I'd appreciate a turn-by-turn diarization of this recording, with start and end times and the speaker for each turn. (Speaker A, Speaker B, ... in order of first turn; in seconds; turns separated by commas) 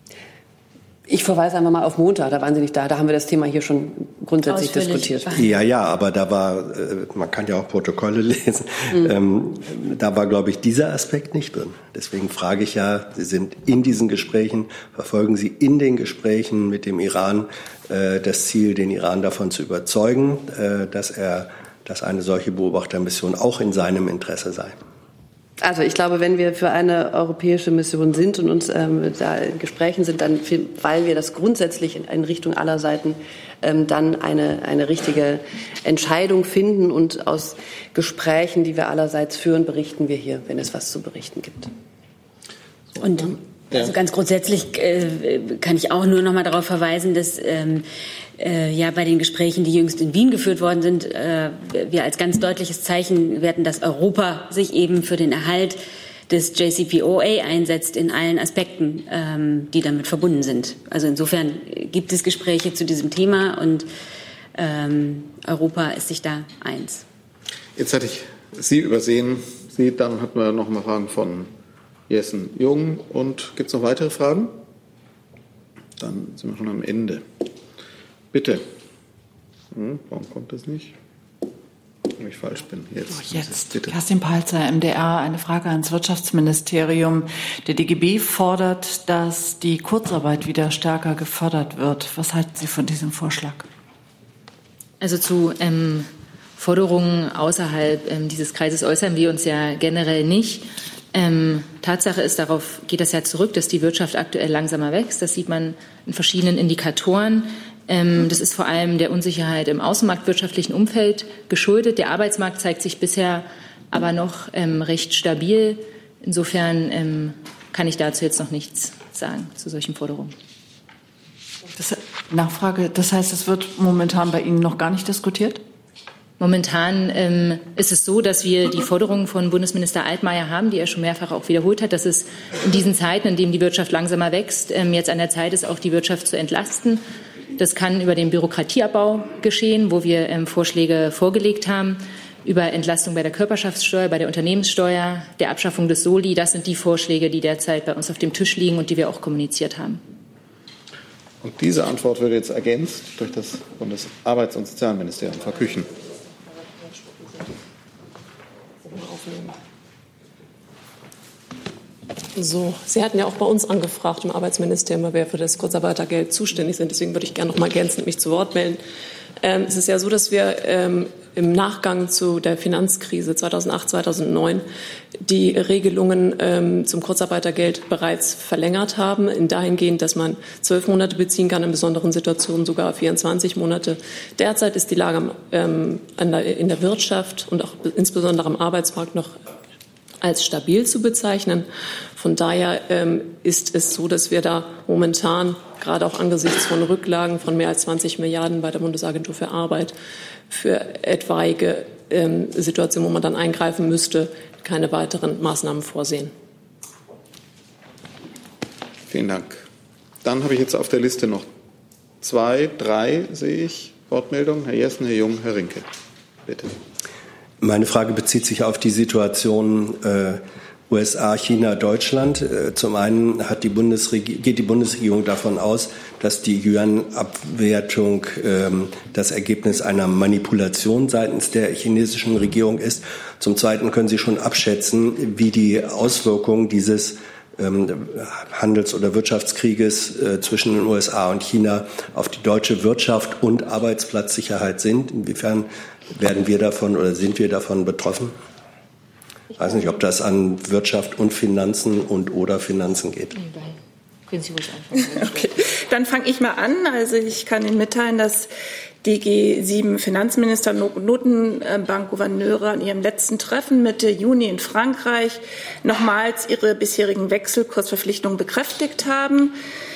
Speaker A: 1.1-5.4, Speaker B: 4.5-5.5, Speaker C: 5.3-24.8, Speaker A: 25.6-41.7, Speaker D: 42.9-43.9, Speaker E: 43.0-47.9, Speaker E: 48.4-63.9, Speaker E: 64.5-67.0, Speaker D: 67.8-71.5, Speaker D: 72.1-74.6, Speaker D: 76.0-77.2, Speaker D: 78.3-78.6, Speaker D: 79.7-80.9, Speaker D: 82.2-84.0, Speaker F: 83.1-93.7, Speaker B: 95.0-120.3, Speaker F: 121.7-125.6, Speaker B: 126.4-137.0, Speaker B: 137.6-150.0, Speaker D: 151.4-155.9, Speaker G: 158.8-159.6, Speaker G: 162.3-168.8, Speaker G: 169.4-174.6, Speaker G: 175.2-189.4, Speaker G: 190.2-199.9, Speaker G: 200.5-206.3, Speaker D: 209.1-209.6, Speaker D: 210.2-211.5, Speaker D: 212.2-215.8, Speaker D: 216.4-216.8, Speaker C: 217.6-248.3, Speaker C: 249.5-253.3, Speaker B: 254.3-255.3, Speaker H: 255.0-258.5, Speaker H: 259.0-269.5